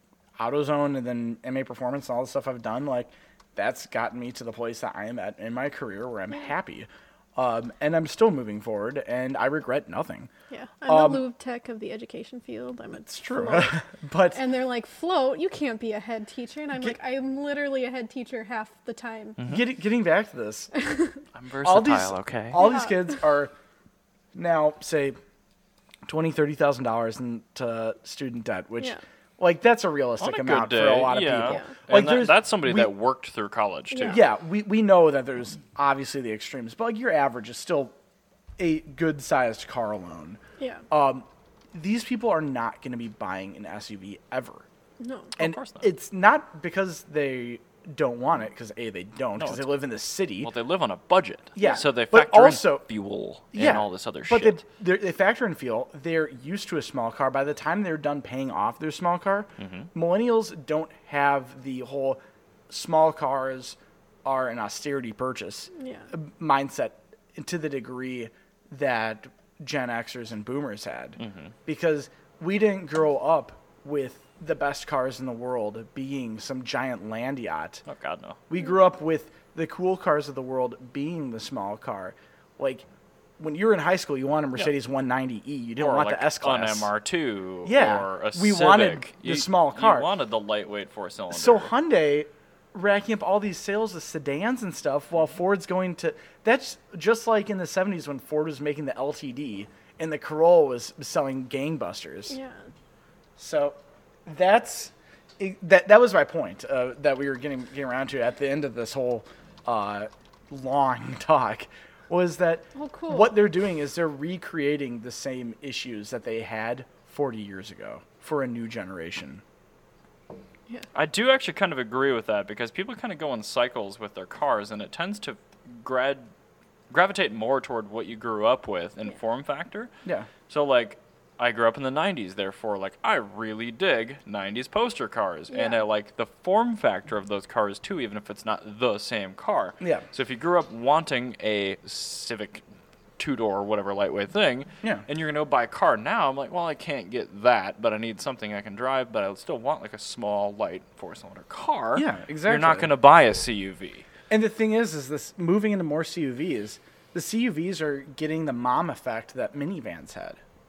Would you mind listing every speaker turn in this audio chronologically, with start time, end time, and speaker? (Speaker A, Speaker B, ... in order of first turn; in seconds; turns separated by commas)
Speaker A: 0.4-10.3, Speaker B: 10.5-13.8, Speaker A: 10.9-11.2, Speaker A: 13.1-14.4, Speaker B: 14.3-19.4, Speaker C: 19.4-19.7, Speaker A: 19.4-20.7, Speaker B: 20.7-21.2, Speaker C: 21.3-22.6, Speaker A: 21.6-23.5, Speaker B: 22.6-22.9, Speaker A: 24.3-25.2, Speaker A: 26.1-32.9, Speaker C: 30.2-34.2, Speaker B: 31.4-31.7, Speaker B: 33.9-34.2, Speaker A: 34.0-37.9, Speaker A: 38.6-40.4, Speaker B: 40.6-40.8, Speaker A: 40.9-44.6, Speaker B: 45.0-45.3, Speaker C: 45.4-45.9, Speaker A: 45.4-50.5, Speaker C: 49.4-49.7, Speaker C: 50.4-54.6, Speaker A: 51.5-52.9, Speaker A: 53.5-77.8, Speaker C: 59.6-59.9, Speaker B: 65.8-66.1, Speaker C: 71.2-71.5, Speaker C: 77.8-78.4, Speaker A: 78.5-82.9, Speaker A: 83.4-86.9, Speaker C: 85.8-91.7, Speaker A: 87.7-90.1, Speaker A: 91.3-102.3, Speaker B: 102.3-102.6, Speaker A: 103.4-119.4, Speaker B: 112.8-113.3, Speaker C: 120.9-126.3, Speaker C: 126.9-129.9, Speaker C: 130.5-142.6, Speaker B: 135.5-135.8, Speaker C: 143.2-154.1, Speaker A: 151.9-152.9, Speaker A: 154.3-160.4